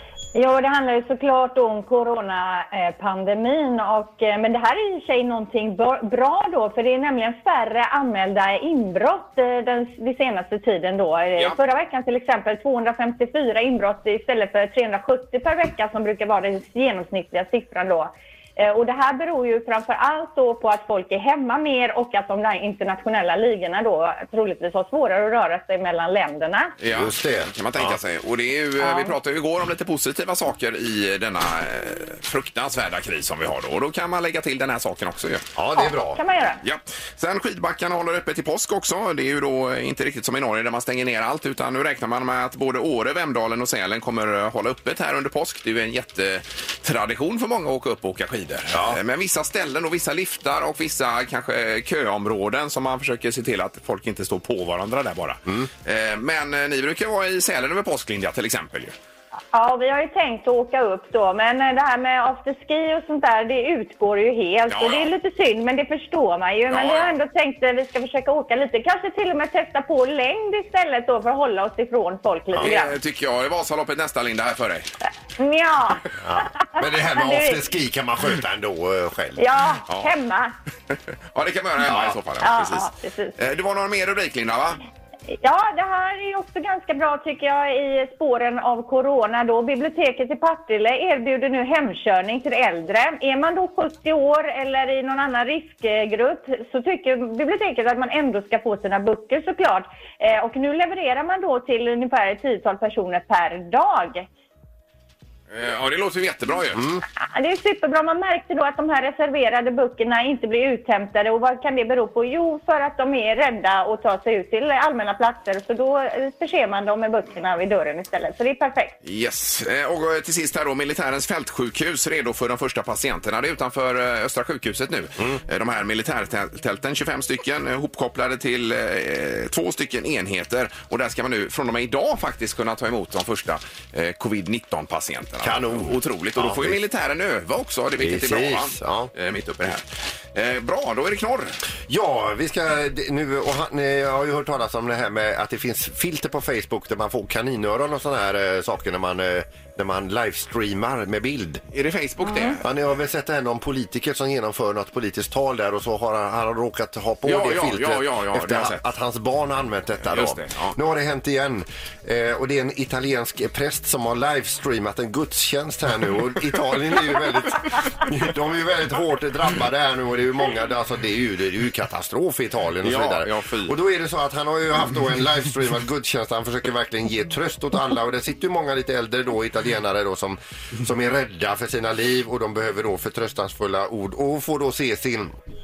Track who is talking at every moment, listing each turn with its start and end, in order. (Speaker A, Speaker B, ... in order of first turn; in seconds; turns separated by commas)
Speaker A: 0.3-26.7, Speaker B: 26.8-35.4, Speaker C: 26.9-28.0, Speaker A: 28.8-29.1, Speaker C: 35.5-36.2, Speaker A: 35.7-36.6, Speaker B: 36.6-58.9, Speaker C: 48.7-49.0, Speaker A: 59.5-73.0, Speaker B: 64.7-65.1, Speaker B: 66.7-67.1, Speaker B: 72.6-74.9, Speaker A: 75.4-77.6, Speaker C: 76.2-79.4, Speaker A: 79.4-80.5, Speaker B: 80.9-84.8, Speaker C: 81.8-82.2, Speaker A: 82.4-83.3, Speaker A: 85.3-104.2, Speaker B: 105.5-107.0, Speaker C: 106.7-107.0, Speaker A: 107.2-119.0, Speaker B: 119.0-141.6, Speaker C: 135.4-136.8, Speaker C: 138.0-139.1, Speaker C: 141.9-151.6, Speaker B: 151.7-152.6, Speaker C: 152.6-185.3, Speaker B: 157.2-158.8, Speaker B: 160.1-160.7, Speaker B: 172.8-173.7